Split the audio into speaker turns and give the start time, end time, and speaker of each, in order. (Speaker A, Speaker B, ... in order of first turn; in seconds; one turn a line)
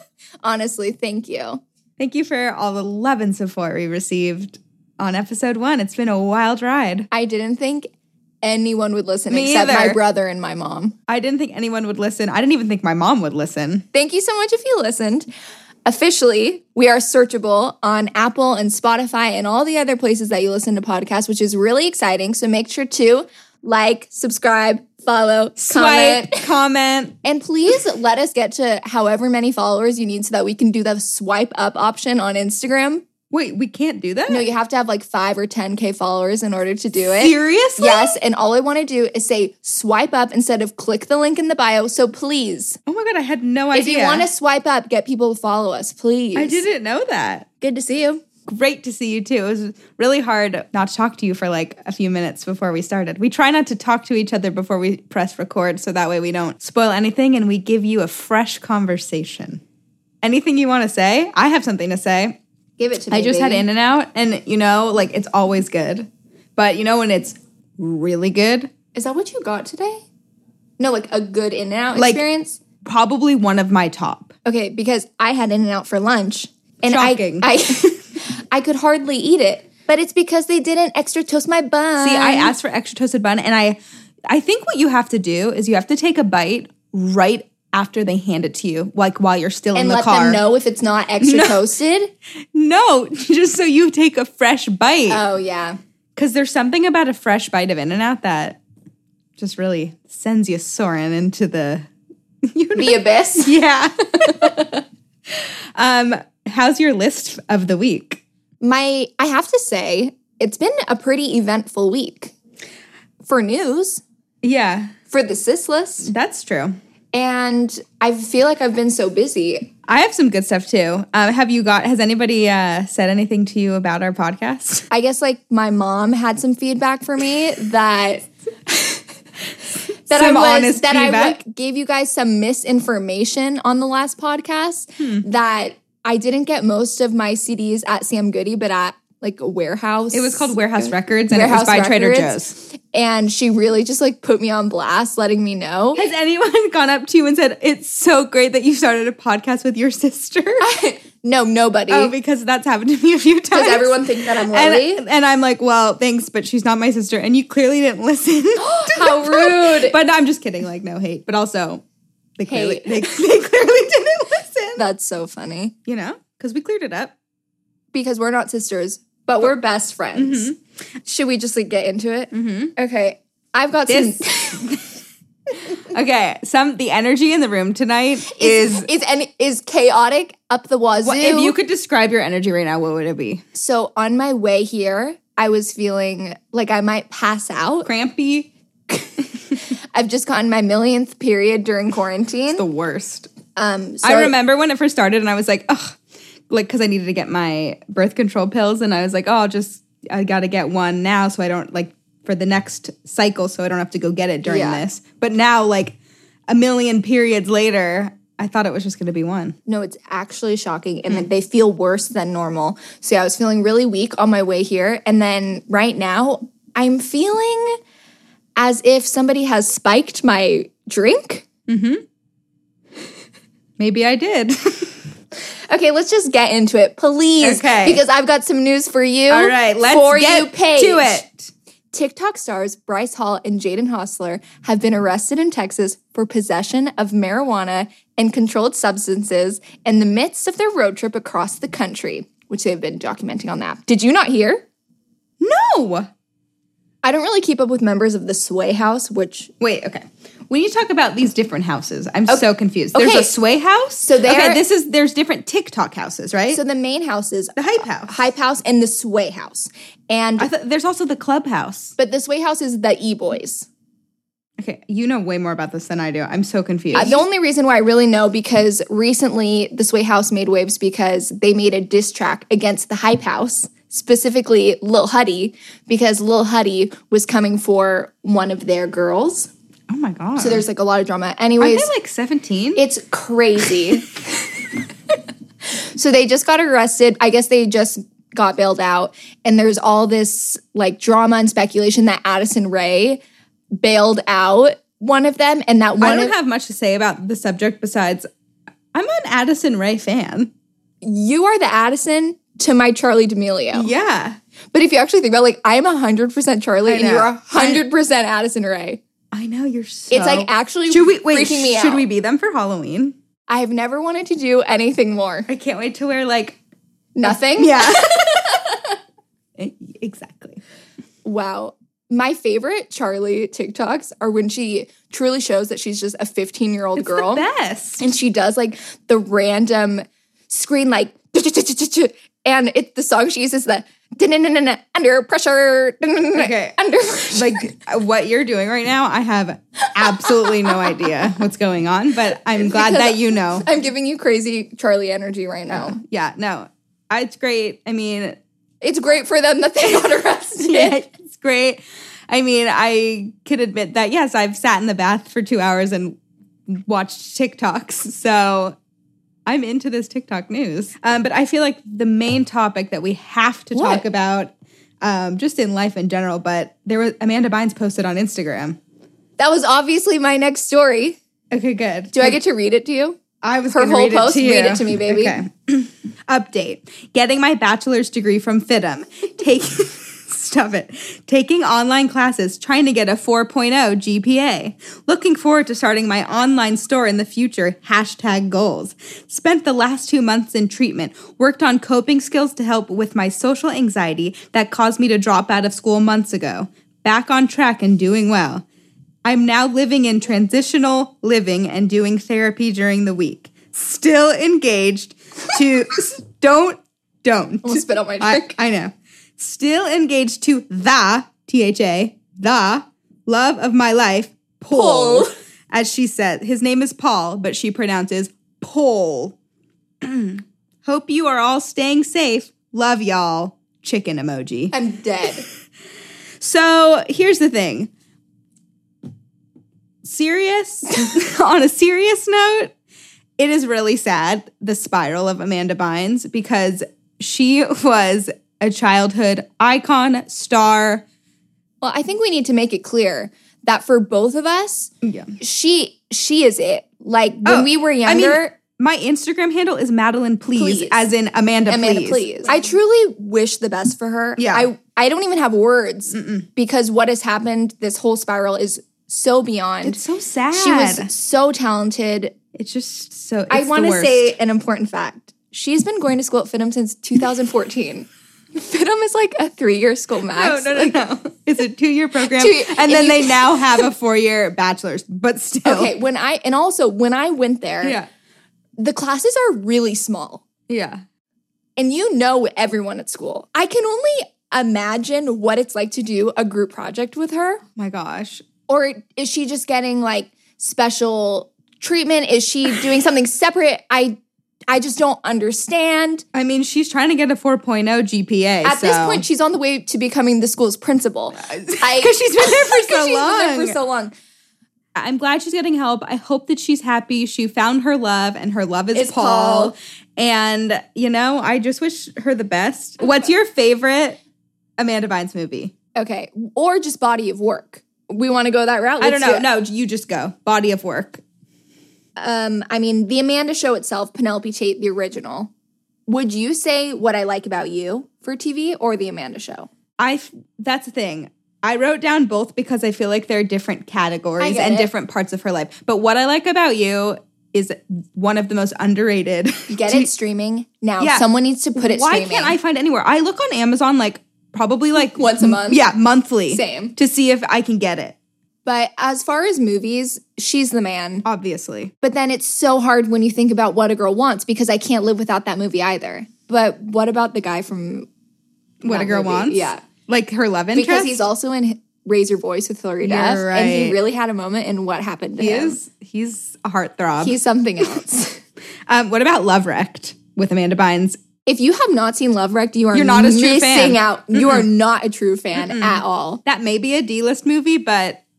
Speaker A: 0.4-1.6
Speaker B: 2.0-7.1
Speaker A: 7.1-7.9
Speaker A: 8.4-11.0
Speaker B: 9.3-10.0
Speaker B: 11.1-13.8
Speaker A: 13.9-15.3
Speaker A: 15.9-26.5
Speaker B: 25.6-27.2
Speaker A: 27.2-33.0
Speaker B: 33.3-34.5
Speaker A: 34.3-42.8
Speaker B: 37.2-38.2
Speaker B: 42.9-44.3
Speaker A: 43.7-46.6
Speaker B: 46.4-47.5
Speaker A: 47.6-48.2
Speaker B: 48.5-59.6
Speaker B: 60.2-62.4
Speaker A: 62.8-63.7
Speaker B: 63.1-68.7
Speaker A: 69.0-70.0
Speaker A: 70.8-72.6
Speaker B: 72.0-72.2
Speaker B: 72.8-74.3
Speaker A: 74.5-82.5
Speaker B: 76.9-77.9
Speaker B: 82.0-83.8
Speaker B: 84.3-90.4
Speaker A: 89.8-92.1
Speaker B: 91.2-91.6
Speaker B: 92.5-95.2
Speaker A: 95.1-95.8
Speaker B: 96.2-98.6
Speaker B: 99.4-101.9
Speaker B: 102.5-104.7
Speaker A: 102.8-103.5
Speaker A: 104.3-104.8
Speaker B: 105.3-108.2
Speaker A: 108.6-112.3
Speaker A: 113.2-114.0
Speaker B: 114.4-114.9
Speaker A: 115.1-116.1
Speaker B: 116.1-116.8
Speaker A: 117.1-119.7
Speaker B: 119.9-124.9
Speaker A: 124.9-129.0
Speaker A: 130.1-146.0
Speaker B: 130.1-131.4
Speaker B: 135.0-135.2
Speaker B: 140.1-142.6
Speaker B: 146.0-150.7
Speaker A: 150.6-152.1
Speaker B: 151.9-161.8
Speaker A: 153.5-155.0
Speaker A: 158.6-160.0
Speaker B: 162.4-164.8
Speaker A: 162.5-163.2
Speaker A: 164.8-165.8
Speaker B: 165.9-167.1
Speaker A: 167.9-170.5
Speaker B: 170.2-170.6
Speaker A: 171.1-174.8
Speaker B: 172.3-172.7
Speaker B: 173.9-174.9
Speaker B: 175.8-178.9
Speaker A: 178.2-181.6
Speaker B: 181.0-183.4
Speaker A: 183.5-187.9
Speaker B: 187.8-188.5
Speaker A: 189.9-192.6
Speaker B: 192.6-193.3
Speaker A: 193.6-194.3
Speaker B: 194.0-196.0
Speaker B: 196.5-206.0
Speaker A: 204.4-204.8
Speaker B: 206.5-209.6
Speaker A: 209.7-217.8
Speaker A: 218.6-221.4
Speaker B: 221.7-222.0
Speaker B: 223.8-225.0
Speaker A: 225.7-231.2
Speaker B: 227.4-228.0
Speaker B: 229.3-231.5
Speaker A: 231.9-244.7
Speaker B: 245.4-246.1
Speaker A: 247.0-249.5
Speaker B: 249.6-256.6
Speaker A: 252.3-253.3
Speaker A: 254.0-254.6
Speaker A: 256.5-260.5
Speaker B: 257.6-258.1
Speaker B: 260.4-261.9
Speaker A: 262.0-263.7
Speaker B: 264.6-267.2
Speaker A: 266.9-279.5
Speaker B: 279.9-280.6
Speaker A: 280.4-281.9
Speaker B: 281.6-282.8
Speaker A: 282.8-284.2
Speaker A: 285.9-293.2
Speaker A: 293.8-296.4
Speaker B: 296.0-298.3
Speaker B: 298.9-300.5
Speaker A: 301.0-303.9
Speaker B: 303.7-304.4
Speaker A: 304.7-309.0
Speaker B: 306.9-307.8
Speaker B: 309.3-313.1
Speaker A: 310.1-312.1
Speaker A: 313.5-315.5
Speaker B: 315.5-316.6
Speaker A: 317.2-319.0
Speaker B: 317.2-318.6
Speaker B: 319.6-320.6
Speaker A: 321.2-327.4
Speaker B: 327.0-328.0
Speaker A: 328.0-337.8
Speaker B: 336.4-336.8
Speaker B: 337.3-343.7
Speaker A: 339.9-341.3
Speaker A: 342.6-346.0
Speaker B: 345.7-348.4
Speaker A: 348.8-351.1
Speaker B: 350.6-358.8
Speaker B: 359.5-368.8
Speaker A: 363.7-364.1
Speaker A: 369.4-371.2
Speaker B: 371.5-372.4
Speaker A: 372.1-375.4
Speaker B: 373.4-398.6
Speaker B: 399.2-419.4
Speaker A: 407.6-408.6
Speaker A: 414.7-415.3
Speaker B: 420.0-424.7
Speaker A: 424.7-425.4
Speaker B: 426.4-427.9
Speaker B: 430.0-432.7
Speaker B: 433.4-441.1
Speaker A: 441.8-448.6
Speaker B: 445.0-445.3
Speaker B: 447.4-452.2
Speaker A: 450.6-451.0
Speaker A: 451.7-460.0
Speaker B: 454.4-454.7
Speaker B: 456.1-456.5
Speaker B: 459.8-461.1
Speaker A: 460.5-462.4
Speaker B: 462.5-464.4
Speaker A: 463.5-471.0
Speaker B: 470.3-475.9
Speaker A: 472.2-473.9
Speaker A: 475.6-478.0
Speaker B: 477.8-478.1
Speaker A: 478.8-480.4
Speaker B: 480.7-481.0
Speaker A: 481.8-487.6
Speaker B: 487.8-488.4
Speaker A: 488.7-494.2
Speaker A: 494.7-496.2
Speaker B: 496.3-499.2
Speaker A: 498.6-504.1
Speaker B: 501.4-503.8
Speaker B: 505.0-514.2
Speaker A: 508.9-509.8
Speaker B: 514.8-515.7
Speaker A: 516.0-519.5
Speaker B: 519.0-521.2
Speaker A: 522.2-525.5
Speaker A: 526.1-529.7
Speaker B: 530.0-540.1
Speaker A: 534.4-534.9
Speaker A: 539.7-542.6
Speaker B: 541.0-548.2
Speaker A: 545.0-545.8
Speaker A: 546.5-547.0
Speaker A: 548.7-551.2
Speaker B: 551.2-551.9
Speaker A: 552.0-558.1
Speaker B: 558.8-561.1
Speaker A: 558.9-559.8
Speaker A: 560.7-565.8
Speaker B: 563.0-564.0
Speaker B: 565.4-567.4
Speaker A: 567.2-568.4
Speaker B: 568.9-571.2
Speaker A: 571.5-576.4
Speaker B: 572.9-574.6
Speaker B: 575.6-578.2